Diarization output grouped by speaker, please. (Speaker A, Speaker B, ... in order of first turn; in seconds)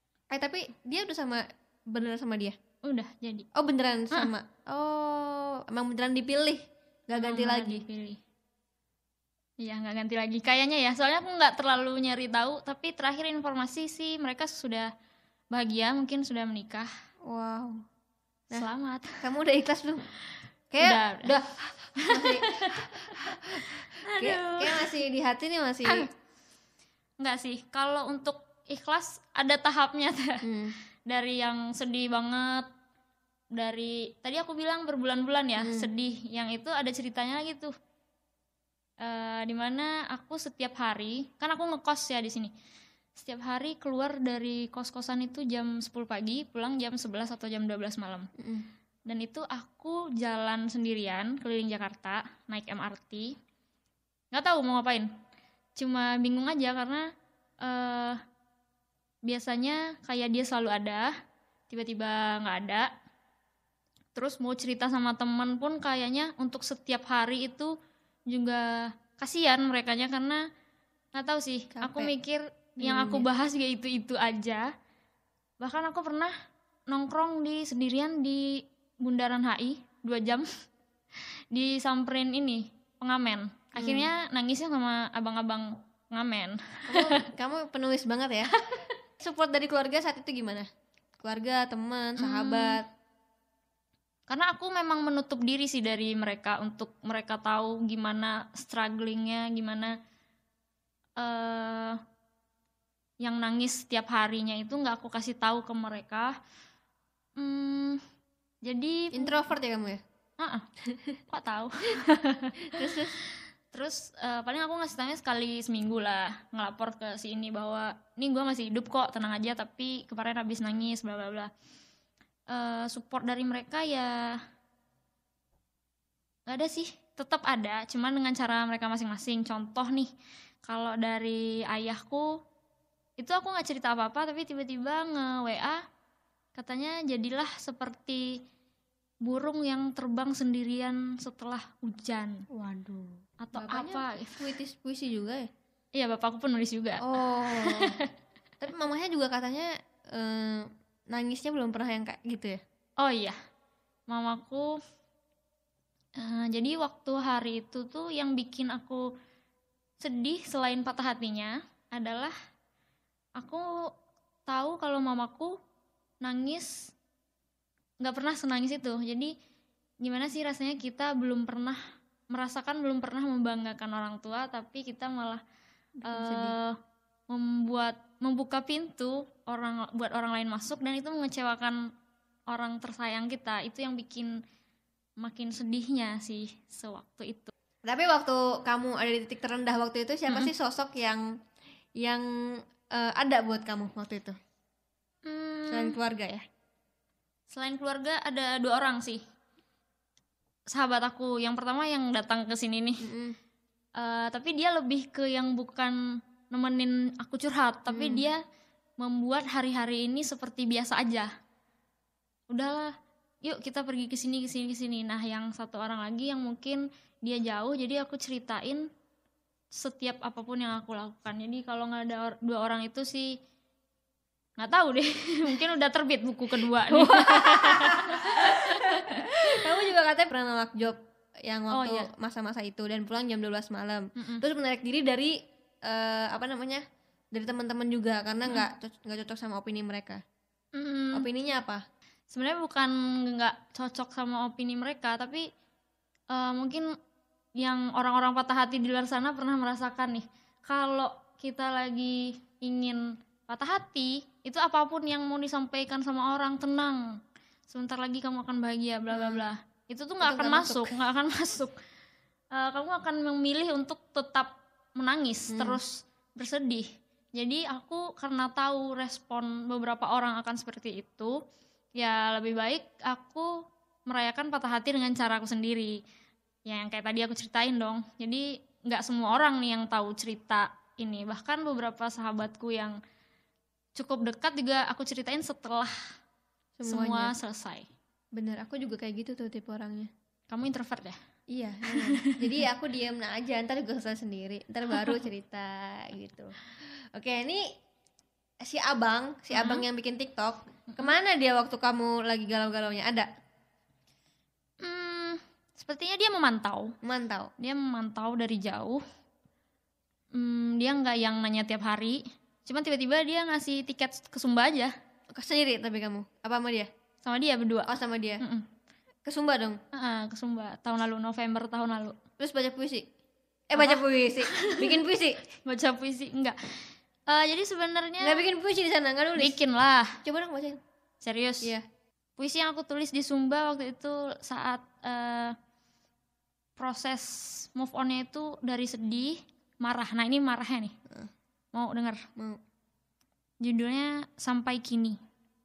Speaker A: 0.3-2.5, 3.5-7.8, 17.2-17.8, 19.2-20.0, 20.7-26.1, 30.4-30.7, 35.6-35.9, 48.4-48.7, 71.7-72.1, 72.8-73.3, 83.8-84.1, 86.9-88.6, 89.2-90.7, 91.2-92.9, 109.1-110.0, 110.9-111.2, 112.7-113.2, 142.5-145.5, 147.0-148.0, 148.6-152.6, 176.0-176.6, 187.8-191.3, 191.9-192.2, 192.9-194.3, 195.7-196.4, 203.0-203.3, 207.9-208.3, 226.7-240.2, 241.1-241.8, 259.1-259.5, 260.2-260.9, 265.5-265.8, 286.8-287.3, 288.3-290.1, 291.5-296.6, 297.1-297.6, 298.6-303.3, 307.0-307.5, 315.3-316.9, 317.9-318.4, 319.2-319.8, 322.4-323.1, 323.7-325.4, 328.2-329.6, 330.2-330.8
Speaker B: 2.8-3.5, 7.2-8.2, 9.6-14.9, 15.5-16.9, 18.5-19.2, 20.8-21.4, 22.0-24.9, 27.2-30.4, 31.1-32.7, 33.5-37.7, 39.0-42.5, 43.1-48.3, 49.0-53.4, 54.3-55.1, 55.8-57.1, 57.6-58.2, 59.2-61.1, 61.7-62.9, 64.1-67.7, 68.3-70.4, 71.1-74.7, 75.6-76.3, 76.9-80.5, 81.5-87.2, 92.2-92.8, 94.3-100.0, 101.2-102.0, 103.2-106.3, 107.4-108.0, 108.6-109.3, 110.4-110.7, 111.3-121.5, 122.5-124.4, 126.5-130.1, 130.6-132.4, 133.2-135.8, 136.5-138.4, 139.2-142.4, 143.4-144.4, 145.9-148.1, 153.0-153.4, 154.1-154.8, 156.2-159.1, 160.0-162.3, 163.4-163.9, 164.4-165.6, 166.2-166.9, 168.0-169.3, 170.0-175.4, 176.1-176.8, 177.3-181.9, 182.5-184.4, 185.2-187.5, 195.2-196.0, 197.5-199.2, 200.7-203.0, 204.0-205.9, 206.5-208.4, 209.0-211.3, 212.5-212.9, 213.4-218.9, 219.7-223.4, 224.6-229.6, 231.7-232.1, 234.2-234.4, 240.7-241.3, 242.3-245.5, 246.3-246.9, 247.6-257.0, 257.7-261.7, 262.5-271.4, 272.0-276.0, 276.6-283.0, 283.9-285.9, 286.9-287.9, 290.5-291.2, 291.9-292.6, 299.5-299.8, 304.8-306.9, 307.6-309.0, 310.3-314.9, 317.2-317.9, 318.4-318.6, 319.9-322.2, 323.7-324.9, 325.6-328.4, 329.4-330.2, 331.2-331.7, 332.4-335.5, 336.8-340.9, 341.7-342.2, 343.6-345.2